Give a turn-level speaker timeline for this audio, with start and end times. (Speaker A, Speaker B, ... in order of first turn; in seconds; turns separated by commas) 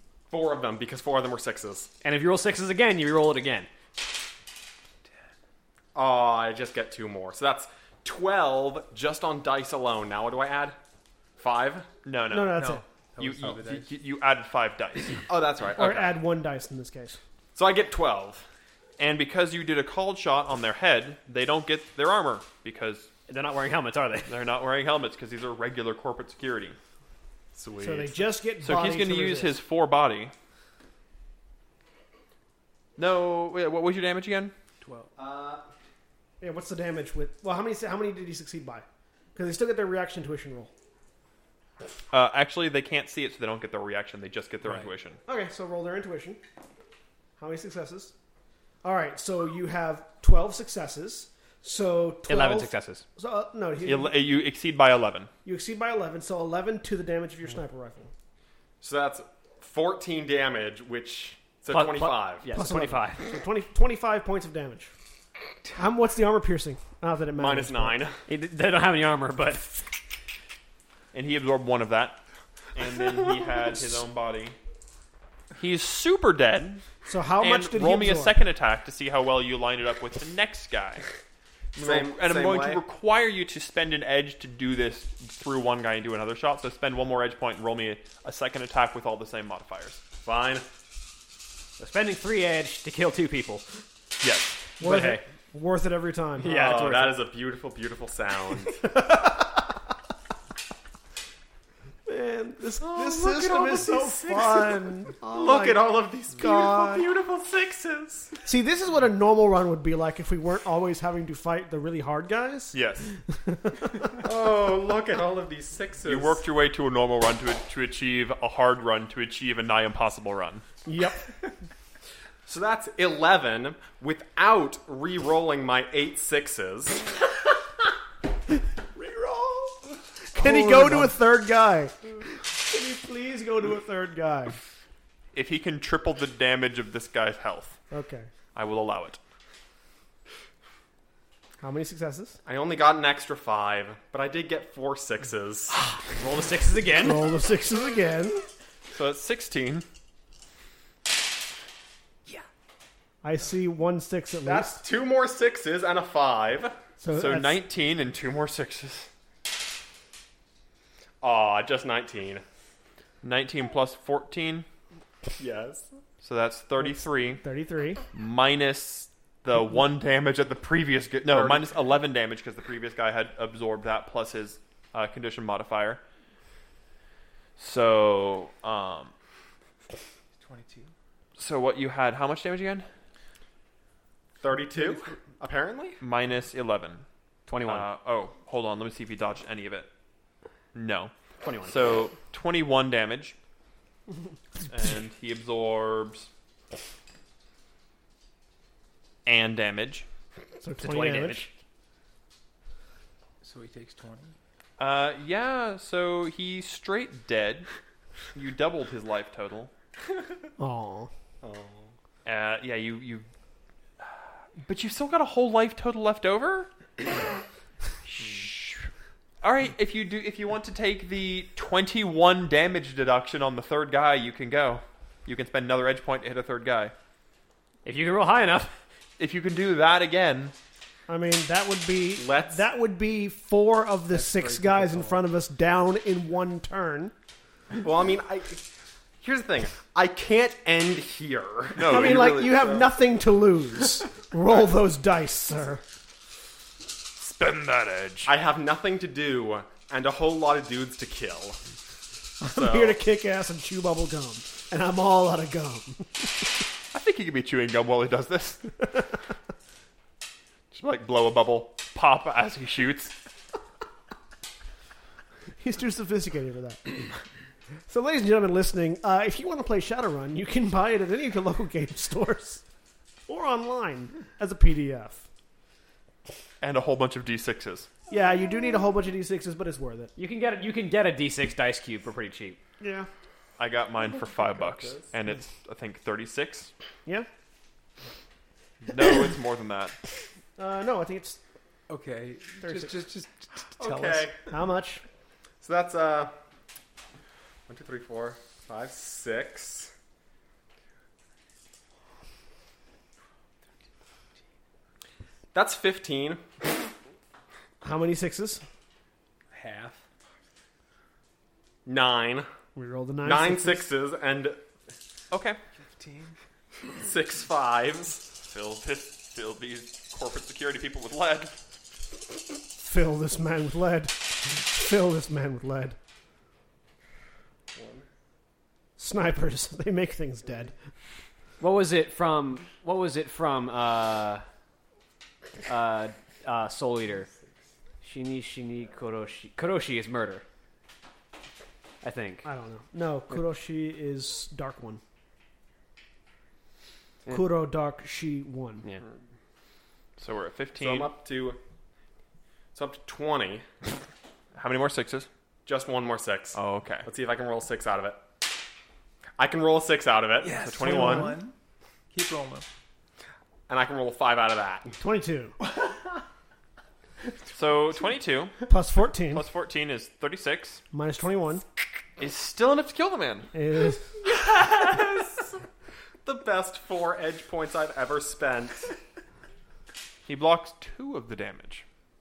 Speaker A: 0.3-1.9, Speaker B: 2.0-3.7, Speaker A: 6.0-10.8, Speaker A: 11.4-11.9, Speaker C: 12.1-12.7, Speaker D: 12.3-12.8, Speaker E: 12.5-13.9, Speaker C: 13.2-15.2, Speaker A: 15.3-16.2, Speaker D: 15.8-17.2, Speaker A: 17.6-18.5, Speaker C: 19.0-23.1, Speaker B: 23.3-24.3, Speaker C: 24.3-26.8, Speaker A: 27.5-28.4, Speaker D: 27.8-29.5, Speaker C: 28.6-30.3, Speaker C: 33.0-34.5, Speaker E: 34.8-35.1, Speaker A: 35.2-35.6, Speaker D: 36.4-40.7, Speaker C: 42.1-45.2, Speaker D: 45.3-46.4, Speaker D: 47.4-48.1, Speaker D: 48.8-54.2, Speaker B: 52.3-53.0, Speaker C: 53.8-55.3, Speaker D: 55.5-58.1, Speaker A: 58.8-62.5, Speaker B: 61.7-63.2, Speaker D: 62.5-64.9, Speaker D: 65.8-68.0, Speaker A: 67.3-68.2, Speaker B: 68.3-69.8, Speaker C: 71.1-72.2, Speaker C: 72.8-74.6, Speaker C: 75.6-76.8, Speaker D: 77.1-78.3, Speaker C: 77.4-81.1, Speaker A: 81.8-82.8, Speaker C: 81.8-90.0, Speaker A: 90.2-90.7, Speaker B: 91.8-93.7, Speaker C: 94.2-94.6, Speaker D: 94.8-97.2, Speaker B: 94.8-95.2, Speaker A: 96.4-98.8, Speaker D: 98.8-99.6, Speaker D: 102.1-107.1, Speaker A: 102.8-108.3, Speaker D: 108.5-114.2, Speaker C: 112.7-113.1, Speaker A: 114.2-116.4, Speaker C: 116.0-120.6, Speaker D: 120.8-121.3, Speaker A: 122.5-127.1, Speaker A: 129.4-129.7, Speaker D: 130.3-134.6, Speaker C: 135.3-137.8, Speaker D: 137.9-138.3, Speaker C: 138.6-139.2, Speaker D: 141.6-142.4, Speaker A: 142.5-145.8, Speaker B: 145.7-147.3, Speaker D: 147.0-148.4, Speaker C: 148.9-149.9, Speaker D: 153.2-154.8, Speaker A: 154.4-156.8, Speaker D: 157.0-157.6, Speaker C: 157.1-159.1, Speaker A: 161.2-162.4, Speaker C: 163.2-164.7, Speaker A: 165.4-165.9, Speaker C: 166.2-167.4, Speaker D: 166.8-168.0, Speaker C: 168.1-176.0, Speaker A: 171.2-171.7, Speaker C: 177.6-179.1, Speaker E: 180.4-180.9, Speaker C: 181.4-182.9, Speaker A: 184.4-186.0, Speaker C: 186.0-187.1, Speaker B: 187.5-187.9, Speaker C: 187.7-189.9, Speaker C: 190.7-191.1, Speaker B: 191.4-192.0, Speaker C: 191.7-193.4, Speaker C: 194.7-196.3, Speaker C: 199.3-200.1, Speaker D: 200.6-201.5, Speaker B: 200.8-201.5, Speaker E: 203.4-204.3, Speaker C: 204.8-207.7, Speaker C: 208.3-209.7, Speaker D: 210.6-211.1, Speaker A: 211.4-211.9, Speaker C: 212.2-213.3, Speaker C: 214.0-216.7, Speaker C: 218.1-218.9, Speaker C: 219.4-226.9, Speaker B: 227.8-228.7, Speaker C: 229.2-230.5, Speaker D: 231.1-237.1, Speaker A: 232.2-232.7, Speaker E: 234.1-235.3, Speaker A: 237.8-238.6, Speaker A: 239.2-242.9, Speaker C: 241.8-242.8, Speaker D: 241.9-245.8, Speaker C: 247.2-248.3, Speaker A: 248.3-251.6, Speaker D: 252.4-256.4, Speaker A: 252.4-253.0, Speaker C: 256.9-258.7, Speaker C: 260.7-263.1, Speaker D: 265.6-267.1, Speaker D: 267.9-272.6, Speaker D: 273.3-275.2, Speaker C: 276.6-277.9, Speaker D: 278.1-280.1, Speaker B: 280.2-282.6, Speaker D: 282.8-283.1, Speaker C: 283.6-286.7, Speaker A: 284.7-285.1, Speaker C: 288.9-290.0, Speaker D: 290.6-291.4, Speaker E: 291.9-294.3, Speaker D: 292.6-293.0, Speaker A: 293.8-294.4, Speaker D: 294.5-295.0, Speaker A: 295.6-296.3, Speaker A: 297.7-299.9, Speaker A: 305.5-306.4, Speaker D: 307.8-308.6, Speaker E: 309.5-310.0, Speaker A: 311.9-312.5, Speaker D: 312.8-313.9, Speaker A: 313.2-314.6, Speaker C: 315.3-315.6, Speaker E: 315.8-316.4, Speaker A: 316.9-318.2, Speaker C: 318.4-321.6, Speaker D: 322.8-326.0, Speaker A: 327.7-328.1, Speaker D: 329.0-330.7, Speaker B: 331.6-334.4, Speaker B: 335.7-337.3, Speaker B: 338.0-340.4, Speaker B: 342.0-342.5, Speaker D: 342.4-345.0, Speaker D: 347.3-348.9, Speaker C: 350.2-351.1, Speaker A: 350.8-351.6, Speaker A: 352.7-353.7, Speaker C: 354.6-355.3, Speaker A: 355.7-358.2, Speaker C: 356.6-357.1, Speaker A: 359.4-361.3, Speaker E: 360.4-361.6, Speaker C: 360.6-361.3, Speaker E: 362.1-362.7, Speaker A: 363.7-365.0, Speaker D: 365.0-365.6, Speaker C: 367.5-368.6, Speaker D: 368.7-369.4, Speaker C: 369.3-370.8, Speaker D: 370.9-371.6, Speaker C: 372.2-373.5, Speaker D: 373.5-374.1, Speaker A: 376.2-378.9, Speaker C: 380.3-381.8